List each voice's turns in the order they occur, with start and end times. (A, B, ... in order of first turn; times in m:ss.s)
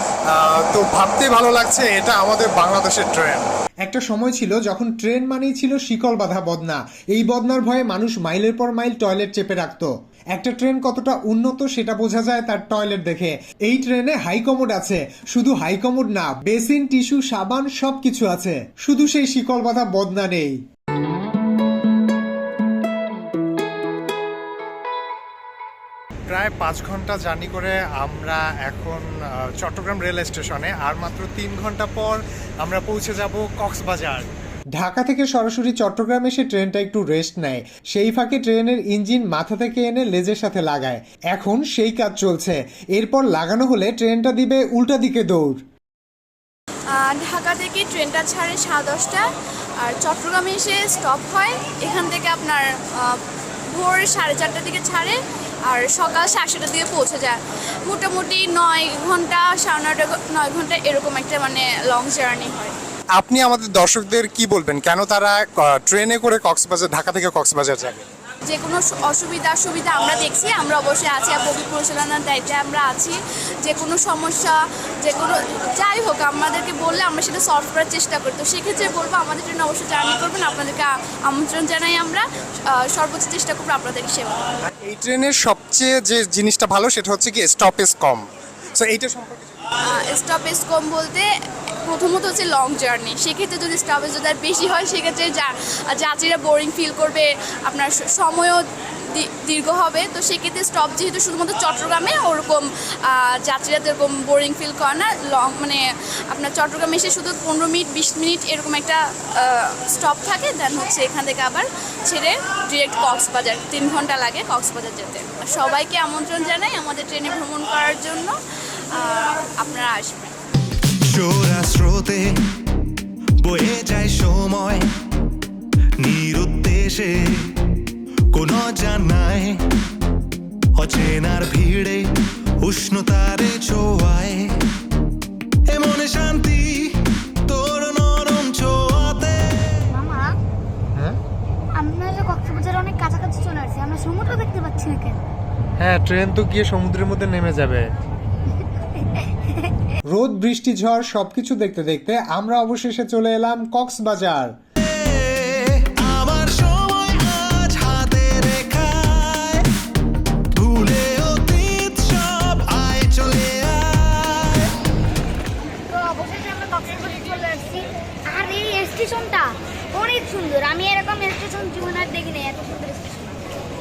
0:00.3-0:20.6 A
0:26.3-0:34.2 A
0:34.8-0:45.6 A
0:46.9-1:02.7 B
1:03.2-1:08.0 A
1:08.4-1:24.5 B
1:24.8-1:29.5 A
1:29.8-1:31.3 B
1:31.8-1:58.4 B
1:58.9-2:00.4 B
2:01.0-2:02.7 C
2:03.4-2:04.9 C
2:06.0-2:09.7 C
2:10.7-2:14.7 C
2:15.7-2:19.9 C
2:19.9-2:20.4 D
2:21.7-2:25.2 D
2:25.8-2:27.8 A
2:30.1-2:34.5 A
2:34.8-2:39.7 C
2:40.5-2:44.7 C
2:45.7-2:53.4 D